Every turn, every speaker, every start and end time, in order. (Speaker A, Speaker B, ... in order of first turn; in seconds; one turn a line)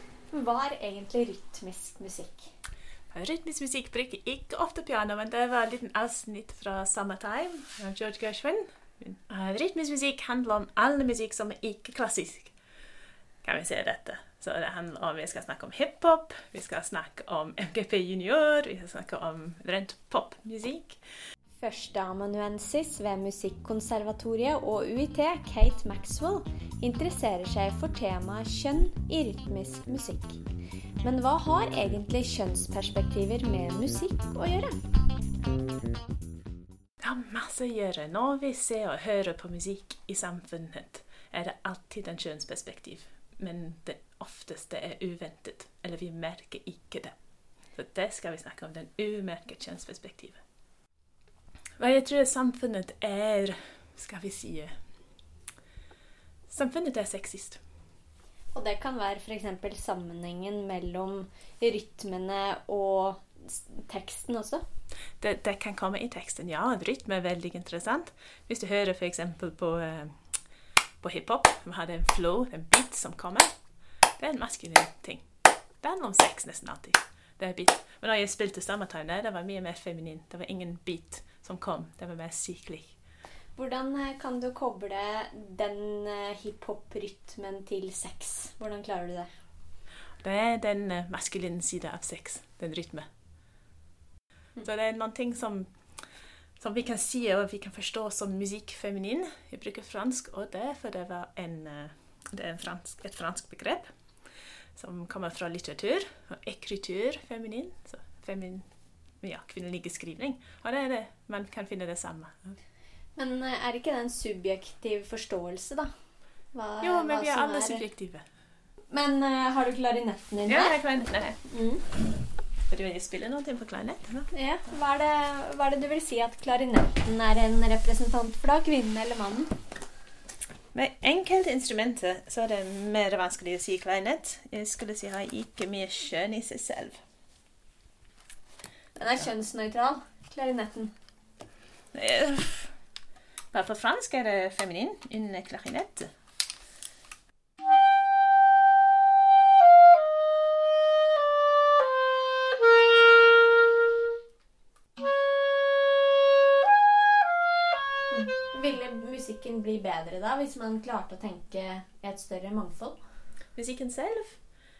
Speaker A: 0.3-2.5
Speaker B: 3.1-12.5
Speaker B: 13.4-21.0
Speaker A: 21.6-30.4
Speaker A: 31.0-34.8
Speaker B: 37.0-47.1
Speaker B: 47.7-50.4
Speaker B: 51.8-54.7
Speaker B: 56.5-57.6
Speaker A: 58.5-64.6
Speaker B: 65.2-70.2
Speaker B: 71.0-73.5
Speaker B: 74.2-75.2
Speaker B: 75.8-83.0
Speaker A: 83.5-89.3
Speaker B: 90.2-93.1
Speaker B: 94.6-95.7
Speaker B: 96.6-103.9
Speaker B: 104.8-108.7
Speaker B: 109.2-112.6
Speaker A: 113.2-115.9
Speaker A: 116.5-117.8
Speaker B: 116.8-118.2
Speaker A: 118.9-120.8
Speaker B: 120.5-121.4
Speaker A: 121.4-121.9
Speaker B: 122.7-124.3
Speaker A: 124.3-129.5
Speaker B: 130.7-137.0
Speaker A: 138.9-140.9
Speaker B: 141.9-142.7
Speaker B: 143.5-146.1
Speaker A: 158.1-163.0
Speaker B: 163.6-164.4